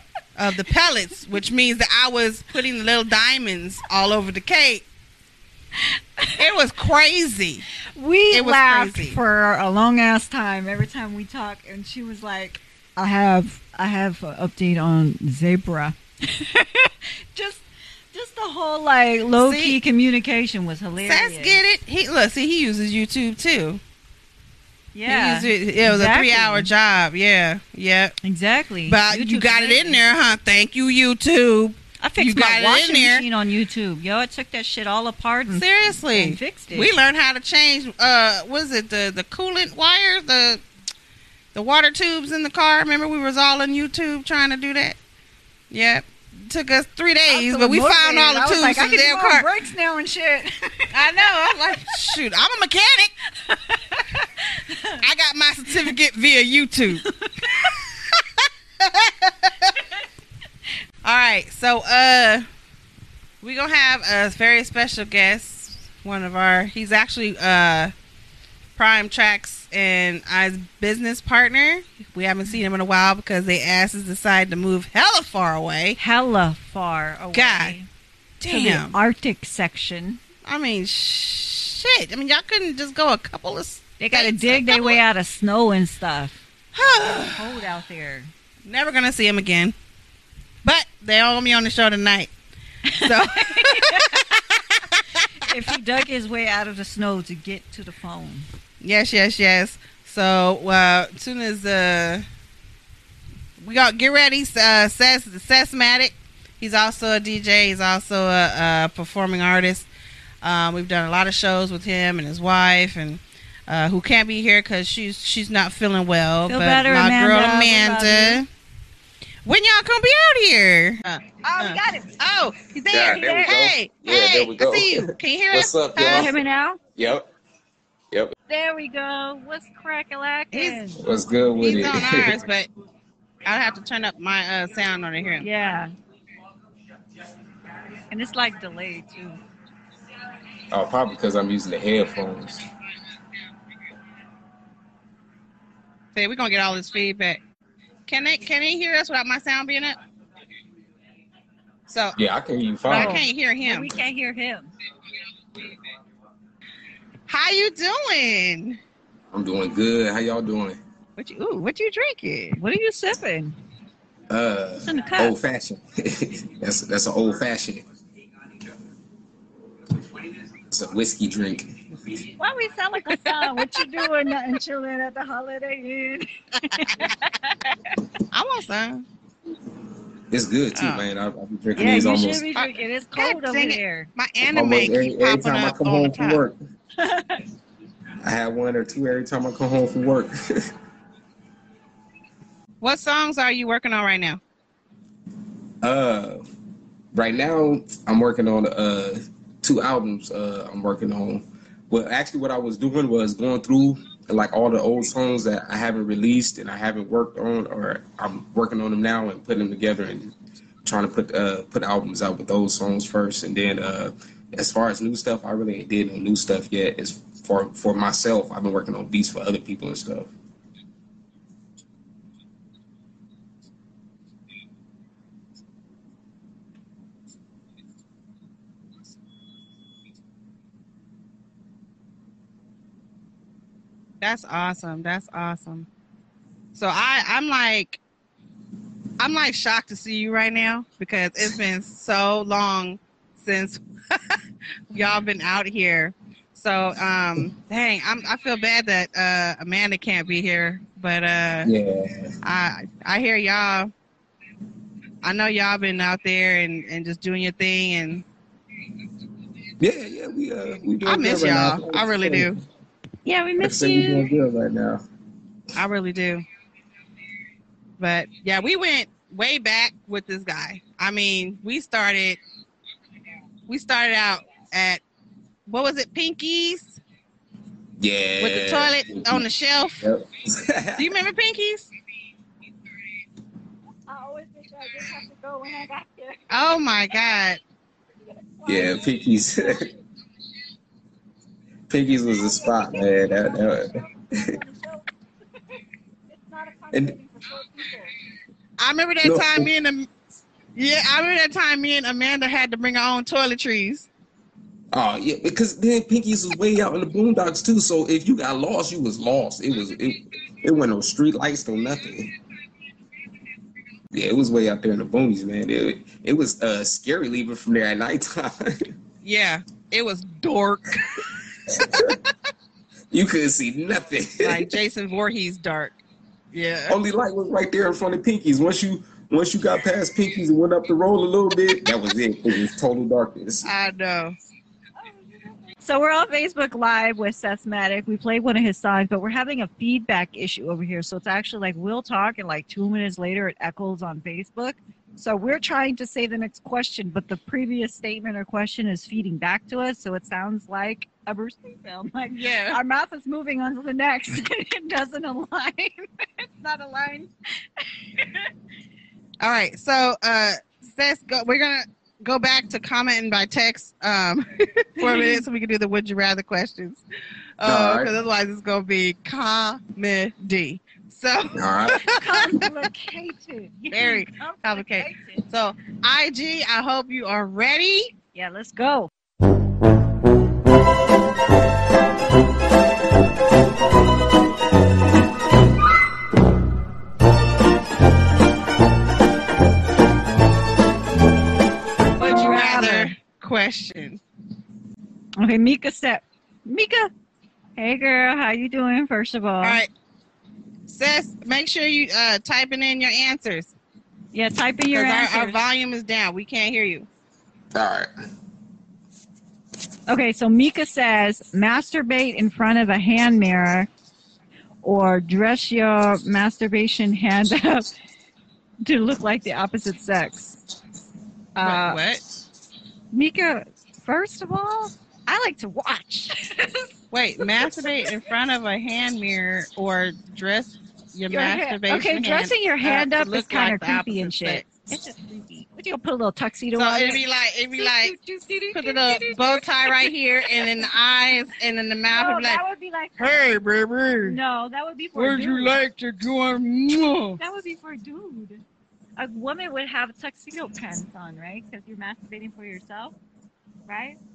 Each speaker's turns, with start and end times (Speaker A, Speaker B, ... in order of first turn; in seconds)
Speaker A: 0.4-4.9, 6.4-7.7, 8.3-9.2, 19.4-19.8, 21.0-23.8, 25.1-28.2, 28.9-33.3, 35.5-40.6, 41.5-45.0, 45.7-49.5, 50.9-53.1, 55.0-57.0, 57.6-58.2, 58.8-59.8, 61.0-62.5, 63.4-67.9, 68.8-76.0, 77.3-77.8, 78.4-79.0, 80.5-85.0, 86.8-87.6, 88.7-89.7, 90.6-92.3, 93.0-95.0, 98.8-102.2, 103.6-109.9, 110.4-118.5, 119.5-126.3, 130.5-130.9, 131.6-132.7, 133.4-135.5, 146.2-147.4, 148.1-150.0, 151.9-152.2, 152.9-153.9, 157.3-158.8, 161.2-162.6, 173.1-173.9, 178.3-179.1, 180.8-181.1, 182.6-186.4, 192.8-194.4, 234.2-235.9, 236.8-238.0, 239.2-244.4, 244.9-251.7, 252.4-253.9, 255.2-258.2, 261.0-262.6, 265.8-266.4, 268.0-272.4, 273.7-275.0, 275.7-277.0, 278.4-280.0, 281.0-281.9, 286.5-287.6, 298.8-300.1, 300.8-304.1, 319.2-321.2, 324.4-326.0, 326.5-327.0, 333.6-334.4, 352.3-352.8, 359.4-367.0, 367.6-372.7, 373.9-378.1, 392.2-394.2, 399.6-399.9, 400.9-403.7, 404.9-407.1, 421.6-422.2, 427.1-434.6, 436.8-438.2, 438.7-442.6, 443.2-444.4, 445.2-447.4
Speaker B: 5.8-6.4, 7.9-21.6, 24.9-26.7, 28.2-30.0, 32.0-36.9, 47.3-52.1, 53.4-55.0, 57.1-57.8, 76.0-77.9, 78.5-80.2, 84.0-88.3, 92.9-94.3, 95.2-98.5, 116.5-118.4, 121.4-122.1, 123.1-123.5, 126.0-126.8, 128.5-131.0, 135.4-135.9, 138.1-139.4, 152.9-154.7, 162.6-163.6, 164.8-165.4, 172.4-177.7, 181.8-184.1, 187.0-187.4, 263.2-264.3, 284.1-287.4, 288.6-289.8, 292.4-295.1, 296.3-298.1, 335.0-358.5, 365.0-365.4, 371.9-375.4, 378.3-379.1, 392.2-393.1, 395.4-397.1, 397.8-399.8, 404.3-405.6, 410.1-413.9, 414.8-417.9, 418.8-420.6, 421.6-422.0, 423.1-428.1, 431.3-437.2, 437.8-440.9, 442.1-443.6, 444.2-445.8, 447.4-448.6, 449.2-453.1, 453.9-454.2
Speaker C: 122.9-126.4, 127.0-127.3, 131.0-132.4, 140.7-142.6, 152.2-153.2, 159.3-160.8, 164.3-167.8, 170.7-171.9, 180.3-182.5, 184.5-186.6, 188.2-190.7, 195.8-196.4, 197.1-220.3, 251.6-252.4, 259.8-262.6, 263.6-265.0, 278.0-279.5, 280.0-281.1, 288.7-289.9, 291.9-294.6, 299.2-299.7, 304.9-312.3, 314.1-318.9, 321.7-322.2, 323.1-324.7, 326.9-333.7, 367.6-368.1, 371.6-372.0, 407.7-408.1